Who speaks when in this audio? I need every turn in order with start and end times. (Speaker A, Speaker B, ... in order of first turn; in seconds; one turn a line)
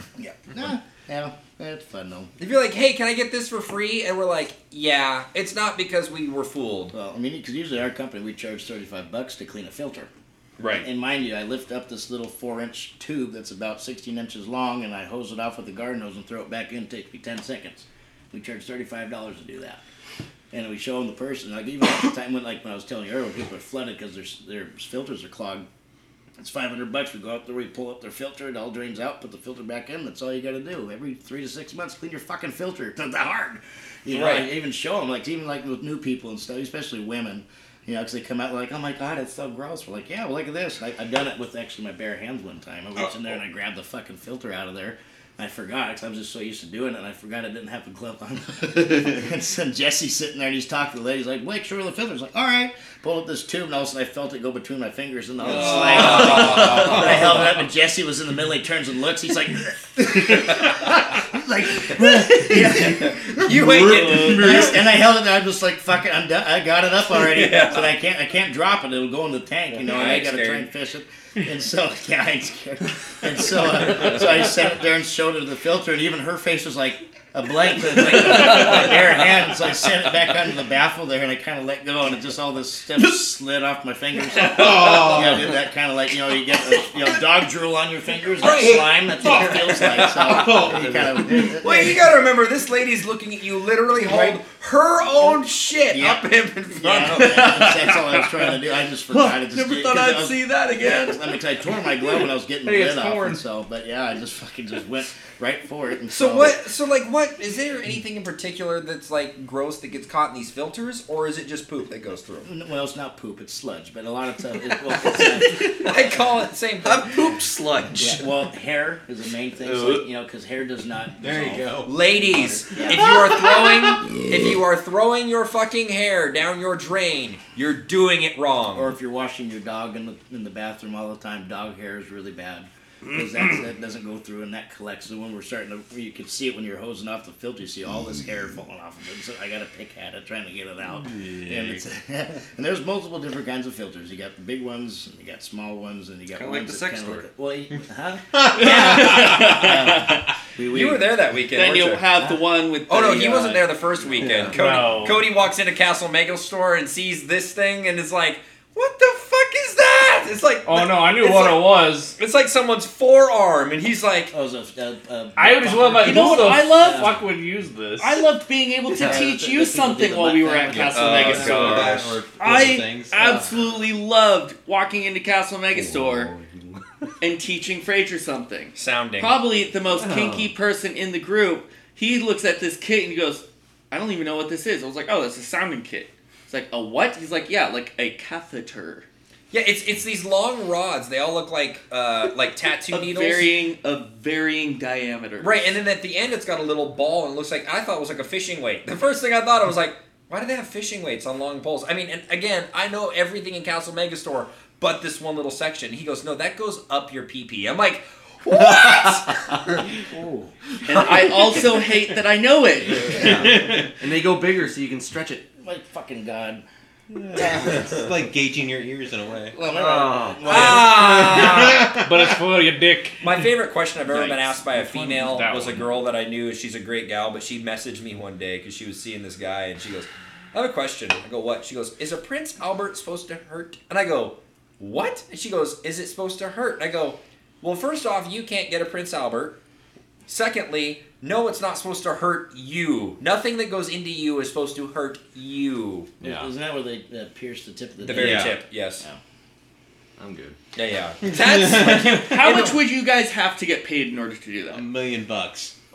Speaker A: 0.2-2.3
Speaker B: 2.4-6.9
Speaker A: 6.9-10.1
Speaker B: 10.6-10.9
Speaker A: 10.8-19.8
Speaker A: 20.5-25.6
Speaker A: 26.4-92.1
Speaker B: 34.1-34.5
Speaker B: 55.5-57.3
Speaker C: 56.6-56.9
Speaker C: 62.0-62.7
Speaker B: 62.5-64.8
Speaker C: 63.5-64.7
Speaker B: 67.1-67.9
Speaker B: 69.9-70.7
Speaker C: 84.4-85.5
Speaker B: 88.4-88.9
Speaker C: 89.2-91.5
Speaker B: 91.6-97.5
Speaker A: 94.0-94.4
Speaker A: 95.9-96.3
Speaker A: 96.8-106.6
Speaker D: 97.1-98.6
Speaker D: 99.1-101.4
Speaker E: 102.6-103.4
Speaker B: 106.1-112.5
Speaker A: 112.5-116.1
Speaker B: 115.5-118.3
Speaker A: 118.0-121.8
Speaker C: 119.6-120.0
Speaker C: 121.2-121.9
Speaker B: 121.8-128.9
Speaker C: 122.5-124.0
Speaker A: 122.7-123.1
Speaker A: 128.7-151.2
Speaker D: 133.1-133.5
Speaker F: 141.2-141.8
Speaker B: 146.3-147.2
Speaker F: 146.8-147.2
Speaker D: 148.4-150.3
Speaker B: 150.7-152.1
Speaker D: 151.5-153.7
Speaker B: 152.9-161.6
Speaker F: 154.2-154.6
Speaker E: 154.5-155.2
Speaker E: 160.6-162.1
Speaker B: 162.2-164.3
Speaker A: 164.3-167.2
Speaker E: 165.4-168.2
Speaker D: 165.9-167.2
Speaker D: 168.0-176.3
Speaker A: 168.9-172.0
Speaker B: 170.9-172.0
Speaker C: 170.9-173.2
Speaker F: 175.8-176.8
Speaker D: 177.2-189.1
Speaker B: 178.7-179.4
Speaker F: 180.1-180.4
Speaker B: 189.5-193.5
Speaker D: 192.9-195.7
Speaker B: 195.4-209.8
Speaker A: 210.0-210.8
Speaker D: 210.8-213.9
Speaker F: 213.1-215.4
Speaker A: 215.6-218.1
Speaker C: 217.1-219.6
Speaker A: 219.5-221.3
Speaker F: 219.7-220.7
Speaker B: 220.4-221.9
Speaker C: 220.5-222.2
Speaker E: 222.0-223.3
Speaker B: 223.2-239.6
Speaker E: 224.1-225.9
Speaker B: 240.3-246.1
Speaker F: 246.2-246.5
Speaker A: 246.2-249.2
Speaker B: 248.0-249.1
Speaker C: 248.1-248.5
Speaker F: 250.2-250.6
Speaker B: 250.7-252.8
Speaker D: 251.7-254.8
Speaker C: 254.7-255.7